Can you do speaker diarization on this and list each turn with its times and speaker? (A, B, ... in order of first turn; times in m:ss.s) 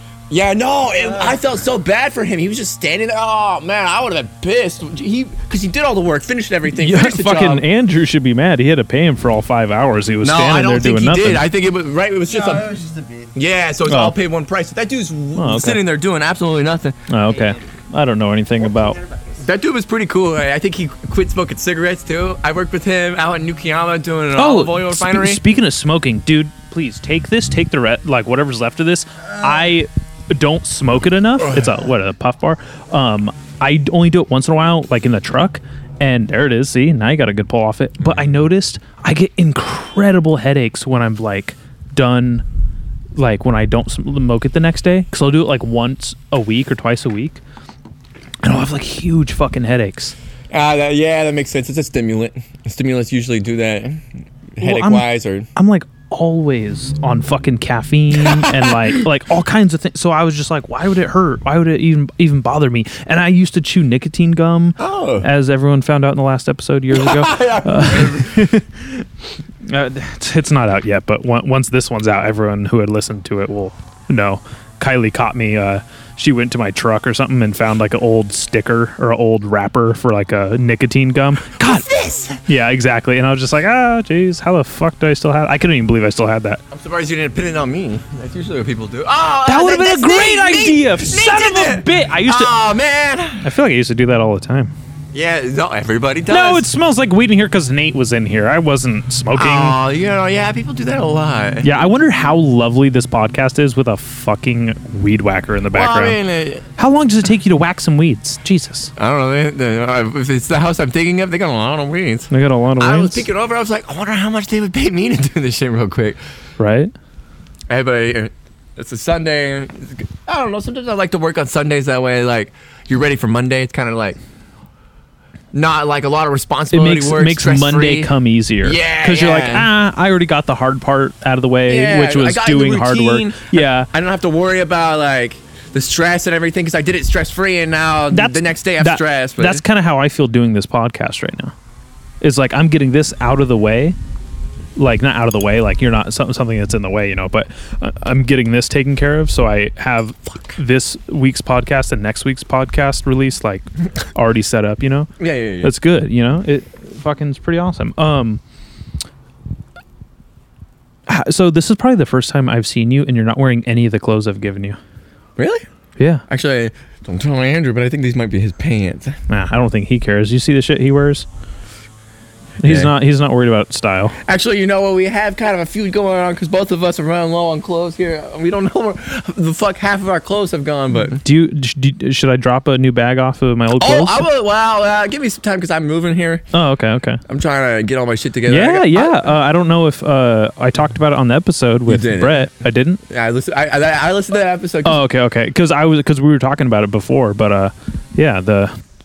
0:00.3-0:07.6 A
0:01.0-0:01.4 B
0:06.7-0:11.4 C
0:10.2-0:12.7 A
0:12.2-0:13.4 B
0:13.3-0:17.0 A
0:13.9-0:14.1 C
0:15.4-0:15.8 C
0:17.1-0:19.0 C
0:17.2-0:17.8 B
0:18.6-0:19.5 B
0:19.4-0:25.4 A
0:24.4-0:42.4 C
0:31.4-0:31.7 A
0:43.2-0:47.4 C
0:48.4-0:50.1 C
0:50.5-0:54.0 A
0:54.6-0:55.5 A
0:54.6-1:08.7 C
0:58.1-0:59.0 A
1:04.8-1:05.3 A
1:06.9-1:08.6 A
1:09.6-1:21.8 C
1:21.6-1:22.4 A
1:22.5-1:26.6 C
1:26.7-1:33.5 A
1:29.5-1:32.5 C
1:33.4-1:34.7 C
1:35.1-1:36.6 A
1:36.3-1:39.8 C
1:39.3-1:41.7 A
1:41.6-1:46.2 C
1:45.7-1:46.6 A
1:46.8-1:48.9 C
1:49.0-1:56.2 A
1:52.3-1:53.2 C
1:56.6-1:56.9 C
1:57.7-2:04.2 A
2:05.5-2:08.1 A
2:06.7-2:13.9 C
2:08.6-2:09.7 A
2:11.7-2:19.6 A
2:18.1-2:21.5 C
2:22.2-2:24.0 C
2:24.8-2:35.1 C
2:35.2-2:35.7 A
2:35.6-2:38.4 C
2:41.1-2:44.8 C
2:45.4-2:45.6 A
2:46.0-2:46.2 C
2:46.3-2:49.2 A
2:49.3-2:51.2 C
2:52.6-2:52.9 A
2:52.6-2:54.2 C
2:54.2-3:01.2 A
3:01.2-3:04.2 C
3:03.8-3:06.5 A
3:06.5-3:07.2 C
3:07.3-3:09.3 A
3:08.5-3:13.0 C
3:11.9-3:12.5 A
3:13.1-3:15.0 A
3:14.8-3:18.7 C